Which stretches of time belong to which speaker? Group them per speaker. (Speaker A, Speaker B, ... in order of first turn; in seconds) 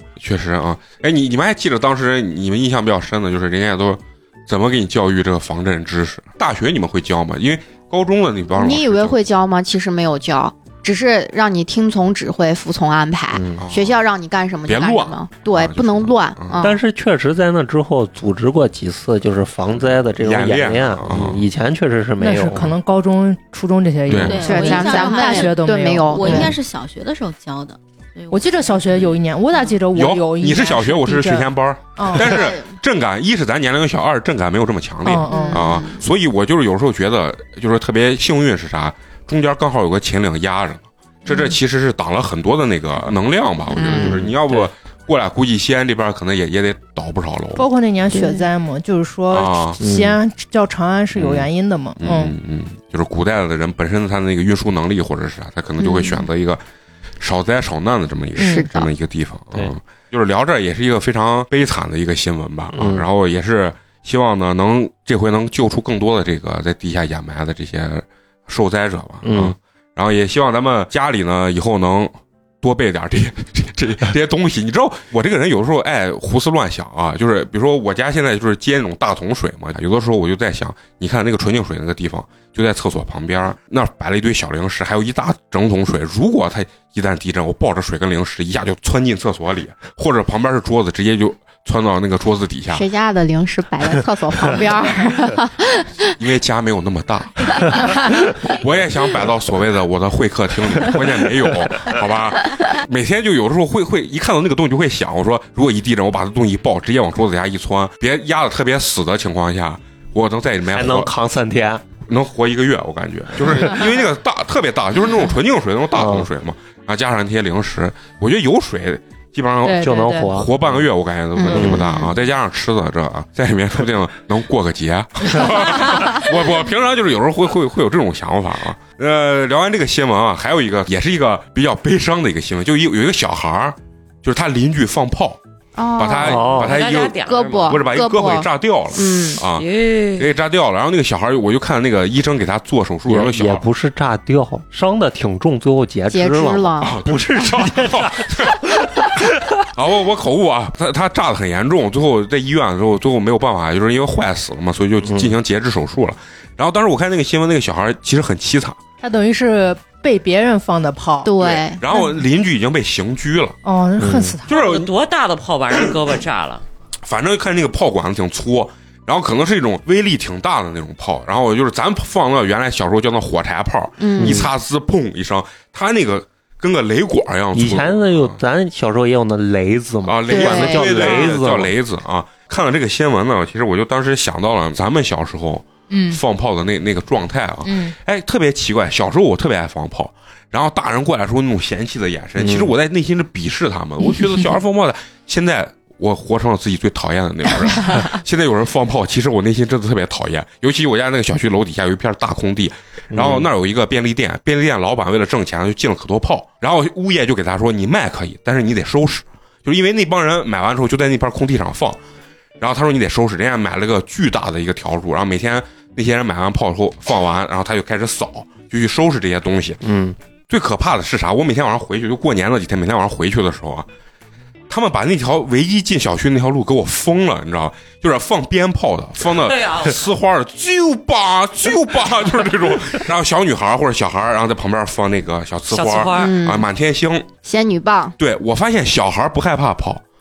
Speaker A: 0.2-9.2, 13.5-14.0, 14.7-16.6, 20.2-21.4, 24.1-24.4, 29.9-47.6, 49.3-49.8, 51.1-56.6, 57.2-92.8, 96.2-97.8, 98.4-111.1, 112.0-135.4, 136.0-143.6, 146.8-149.1, 149.7-158.8, 161.4-163.6, 164.5-164.9, 167.0-178.4, 180.0-212.0, 212.6-219.8, 220.5-223.9, 224.7-237.3, 238.2-240.0
Speaker B: 8.5-16.8, 24.4-26.6, 32.2-32.7, 35.4-35.9, 43.7-44.2, 48.1-48.5, 55.8-56.3, 58.4-58.9, 92.7-96.1, 97.6-98.3, 121.3-122.1, 135.8-139.4, 146.1-146.9, 161.2-162.1, 174.0-174.5, 180.3-181.3, 236.1-236.7, 237.4-238.2
Speaker C: 13.3-13.6, 16.6-22.7, 43.9-44.7, 49.8-50.2, 62.7-63.0, 69.2-69.5, 110.7-111.8, 115.9-116.3, 119.8-120.8, 121.5-122.0, 136.2-136.7, 143.1-149.2, 155.0-155.3, 164.0-164.3, 174.2-174.5, 177.5-181.7, 192.4-192.7, 203.1-203.5, 219.8-220.2
Speaker D: 22.2-26.5, 28.3-32.4, 35.0-35.6, 47.5-52.3, 58.4-58.7, 119.6-120.4, 159.0-161.3, 163.6-164.5, 185.9-186.2, 187.6-187.9
Speaker E: 24.1-29.8, 35.3-36.0
Speaker F: 136.7-137.8, 139.6-140.3, 164.5-166.6, 229.3-230.0, 235.7-236.4